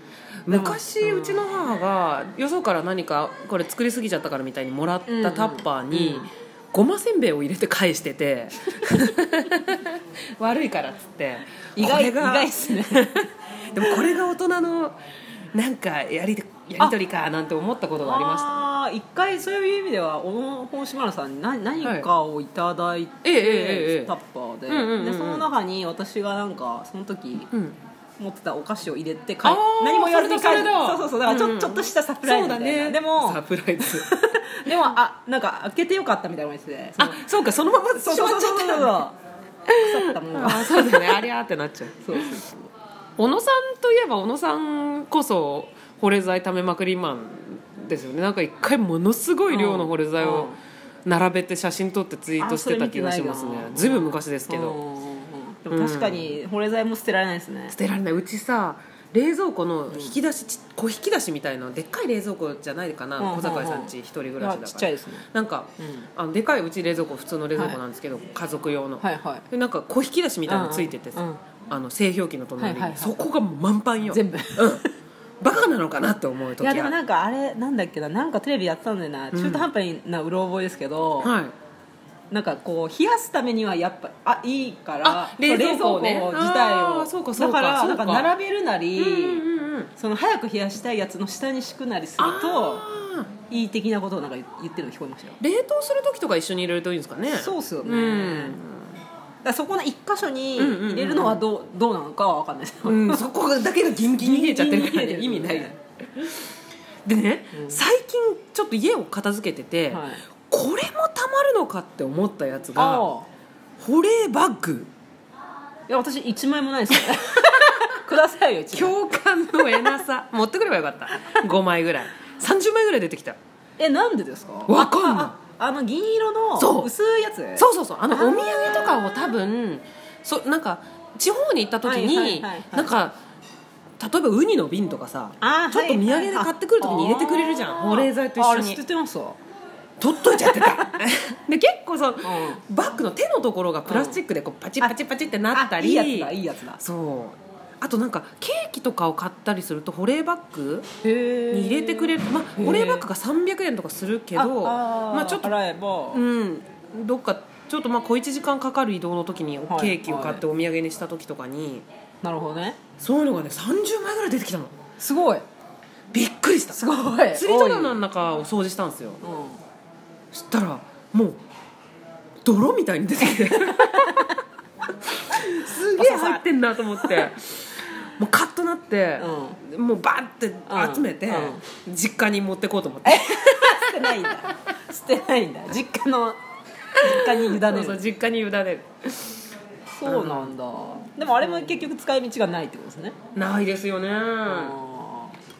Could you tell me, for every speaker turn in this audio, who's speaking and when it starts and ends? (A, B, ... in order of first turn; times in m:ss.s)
0:00.4-0:15.0 A
0:00.5-0:01.5 B
0:05.1-0:06.3 B
0:11.8-0:13.3 B
0:15.5-0:18.5 A
0:18.0-0:27.5 B
0:21.8-0:22.1 A
0:23.2-0:24.1 A
0:24.7-0:25.4 A
0:27.5-0:27.8 A
0:28.2-0:37.3 B
0:29.4-0:34.1 A
0:37.0-0:39.0 A
0:38.0-0:39.2 B
0:39.7-0:42.4 A
0:39.8-0:41.2 B
0:42.0-0:42.7 B
0:43.2-0:54.8 A
0:49.5-0:50.6 B
0:52.4-0:57.8 B
0:55.7-0:56.4 A
0:57.7-1:14.8 A
0:59.9-1:00.1 B
1:03.2-1:05.3 B
1:05.8-1:06.1 B
1:09.0-1:09.4 B
1:10.5-1:11.4 B
1:12.6-1:13.2 B
1:14.1-1:14.9 B
1:15.4-1:16.9 A
1:16.6-1:21.3 B
1:19.3-1:19.7 A
1:21.2-1:21.5 A
1:22.3-1:29.4 B
1:25.0-1:28.3 A
1:28.9-1:29.9 A
1:30.0-1:32.8 B
1:32.2-1:33.3 A
1:33.5-1:35.4 B
1:35.4-1:38.9 A
1:37.3-1:38.6 B
1:39.4-1:43.2 B
1:40.6-1:41.4 A
1:42.8-1:46.5 A
1:43.9-1:45.7 B
1:47.0-1:53.1 A
1:47.5-1:47.8 B
1:49.9-1:50.2 B
1:52.7-1:53.3 B
1:53.8-1:54.9 A
1:55.9-1:59.0 B
1:58.7-2:03.4 A
2:03.8-2:08.7 B
2:04.7-2:05.3 A
2:06.6-2:06.9 A
2:07.6-2:13.2 A
2:11.8-2:12.9 B
2:14.0-2:18.8 A
2:15.4-2:19.4 B
2:20.0-2:30.9 A
2:20.4-2:20.9 B
2:22.2-2:22.6 B
2:23.9-2:24.2 B
2:25.5-2:26.8 B
2:31.0-2:33.0 B
2:31.5-2:35.5 A
2:34.4-2:36.2 B
2:36.1-2:41.8 A
2:39.7-2:40.4 B
2:42.2-2:42.8 B
2:43.0-2:44.7 A
2:45.0-2:45.4 B
2:46.1-2:49.2 A
2:46.7-2:48.0 B
2:49.2-2:49.6 B
2:50.3-2:51.4 A
2:52.4-2:54.3 A
2:53.7-2:54.3 B
2:55.3-3:04.4 A
2:55.4-2:56.4 B
2:57.0-2:57.3 B
2:59.2-2:59.6 B
3:00.7-3:01.6 B
3:03.0-3:06.4 B
3:07.0-3:08.0 B
3:07.0-3:09.4 A
3:10.0-3:13.2 B
3:10.0-3:10.5 A
3:13.3-3:14.8 A
3:14.4-3:15.4 B